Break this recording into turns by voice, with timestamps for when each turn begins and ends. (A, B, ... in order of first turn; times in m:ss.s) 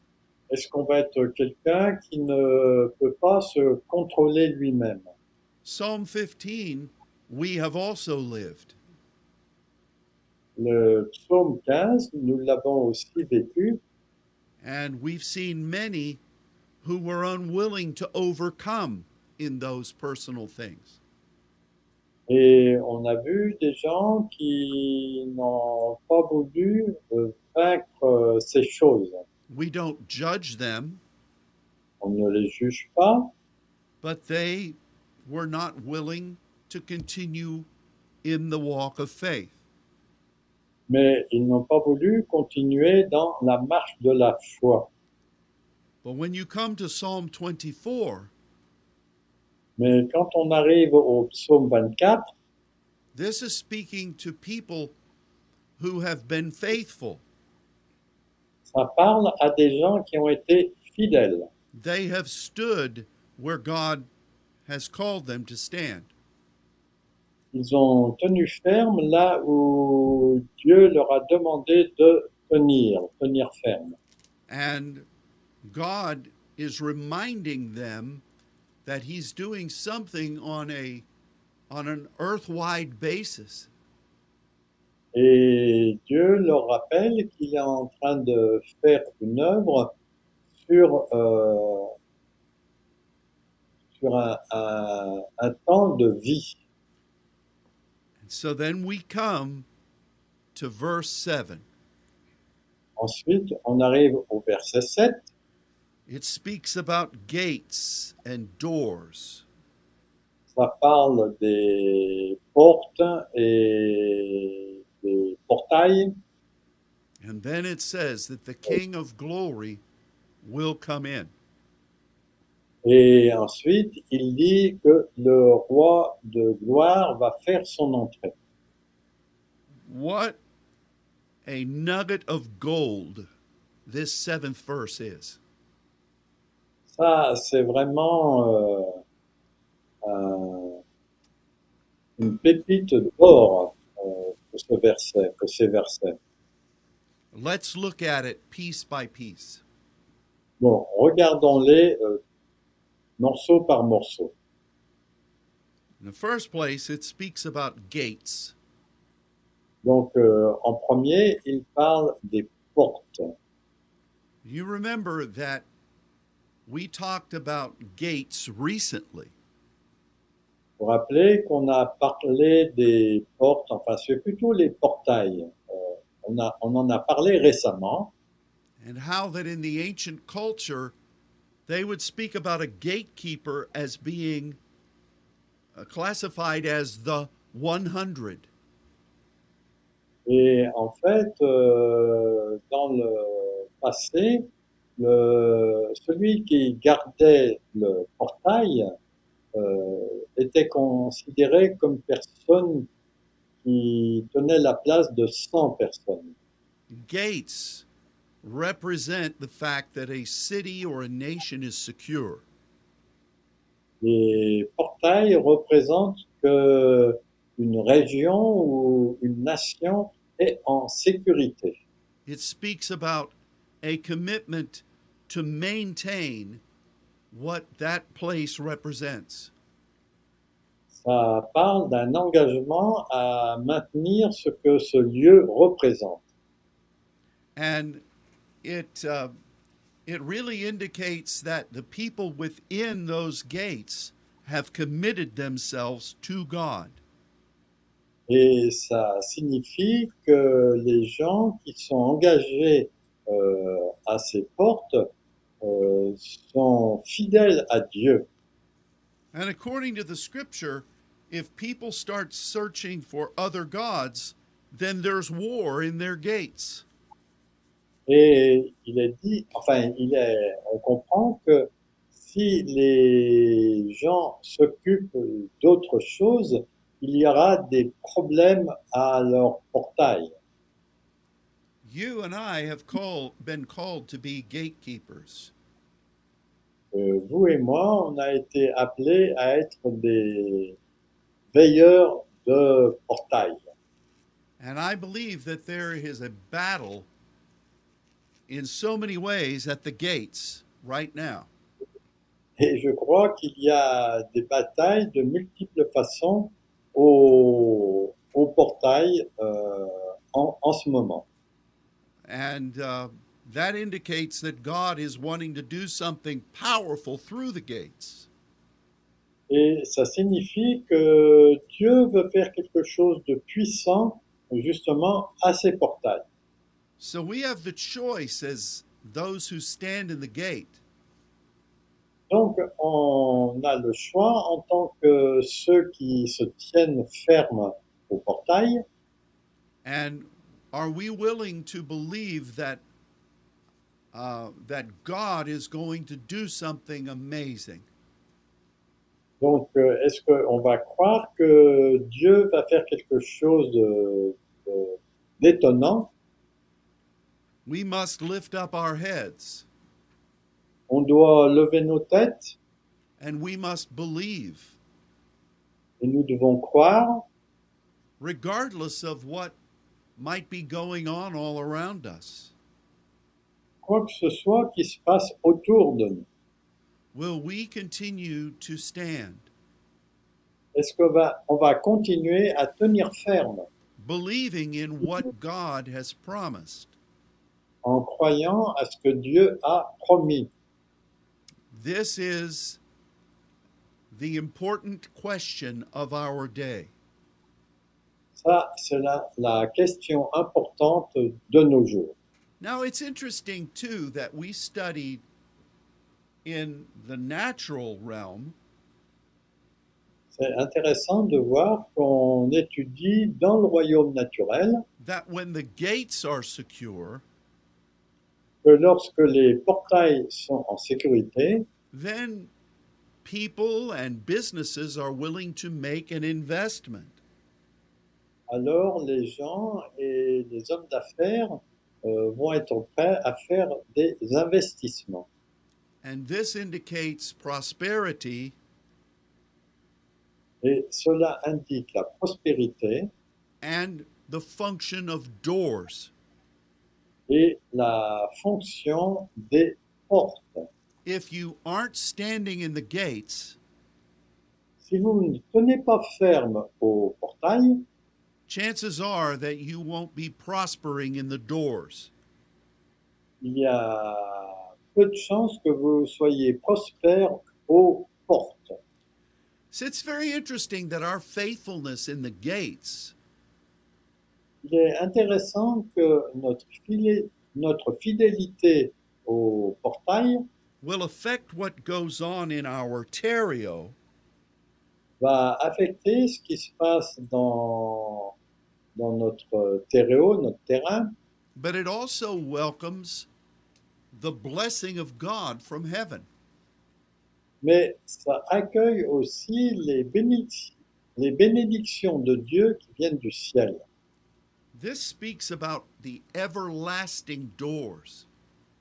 0:00.5-0:05.1 A
0:05.6-0:08.8 B
0:10.6-0:13.8 A
0:14.6-0:16.2 B
0:16.8-0:21.0 B
0:22.3-0:29.2 A
0:29.5-0:31.0 B
0:32.0-0:33.3 A
0:34.0-0:37.7 B
0:38.2-0:39.6 B
0:40.9-0:44.9 A
0:46.0-0:48.3 B
0:49.8-0:52.3 A
0:53.2-0:55.0 B
0:55.8-0:57.2 B
0:58.7-1:01.5 A
1:01.7-1:04.1 B
1:04.7-1:06.1 B
1:07.5-1:14.0 A
1:14.5-1:15.1 B
1:15.6-1:18.2 B
1:18.8-1:21.1 B
1:21.7-1:23.7 B
1:25.1-1:29.9 A
1:30.6-1:31.9 A
1:34.0-1:36.6 A
1:38.2-1:39.7 B
1:40.6-1:41.6 B
1:43.0-1:45.3 A
1:46.1-1:49.4 B
1:50.5-1:56.2 A
1:57.2-1:59.8 B
2:00.4-2:01.3 B
2:02.8-2:08.4 A
2:09.9-2:10.4 B
2:11.5-2:13.3 B
2:13.9-2:15.4 B
2:16.9-2:19.0 A
2:20.0-2:20.8 A
2:22.2-2:26.2 A
2:27.3-2:29.6 B
2:30.6-2:32.2 A
2:33.2-2:34.3 A
2:36.0-2:38.6 B
2:39.8-2:43.3 A
2:44.4-2:45.7 B
2:46.7-2:49.3 B
2:50.8-2:58.1 A
2:58.8-3:01.0 B
3:01.7-3:04.6 B
3:05.8-3:08.5 B
3:10.3-3:18.9 A
3:19.5-3:22.9 A
3:23.6-3:26.4 A
3:26.9-3:27.9 B
3:28.4-3:32.5 B
3:34.0-3:41.8 A
3:42.3-3:46.6 B
3:47.3-3:49.5 B
3:50.9-3:56.2 A
3:57.6-3:58.0 B
3:58.6-3:59.3 B
4:00.1-4:07.0 B
4:08.3-4:15.1 A
4:15.6-4:18.3 A
4:19.3-4:26.9 B
4:28.1-4:40.3 A
4:41.8-4:45.5 B
4:46.9-4:50.8 A
4:51.5-4:53.7 A
4:54.6-4:57.1 B
4:58.5-5:01.5 B
5:02.6-5:11.3 A
5:12.2-5:18.3 B
5:19.5-5:26.3 A
5:27.0-5:30.8 B
5:32.3-5:38.8 A
5:39.8-5:42.8 B
5:44.1-5:47.9 B
5:49.4-5:56.1 A
5:57.7-5:59.7 B
6:00.9-6:02.6 A
6:03.2-6:04.8 B
6:06.0-6:07.3 A
6:08.2-6:09.6 B
6:10.2-6:12.5 B
6:13.8-6:16.3 A
6:17.1-6:19.5 B
6:20.8-6:23.7 A
6:24.0-6:26.9 B
6:27.8-6:30.5 A
6:31.7-6:32.8 B
6:34.1-6:36.9 B
6:38.4-6:42.2 A
6:42.6-6:45.2 B
6:46.4-6:48.6 B
6:50.3-6:54.8 A
6:55.0-6:57.2 B
6:58.6-7:01.7 A
7:01.9-7:02.5 B
7:03.2-7:07.2 B
7:08.5-7:15.3 A
7:16.0-7:18.6 B
7:20.6-7:23.1 A
7:23.6-7:26.1 B
7:27.3-7:30.7 A
7:31.0-7:33.6 B
7:34.8-7:37.8 A
7:38.5-7:42.1 B
7:43.4-7:48.8 A
7:49.7-7:53.2 B
7:54.6-8:00.4 A
8:00.8-8:04.0 B
8:05.2-8:08.4 A
8:09.0-8:11.2 A
8:11.6-8:13.3 B
8:14.1-8:16.3 B
8:17.6-8:23.8 A
8:24.7-8:28.3 B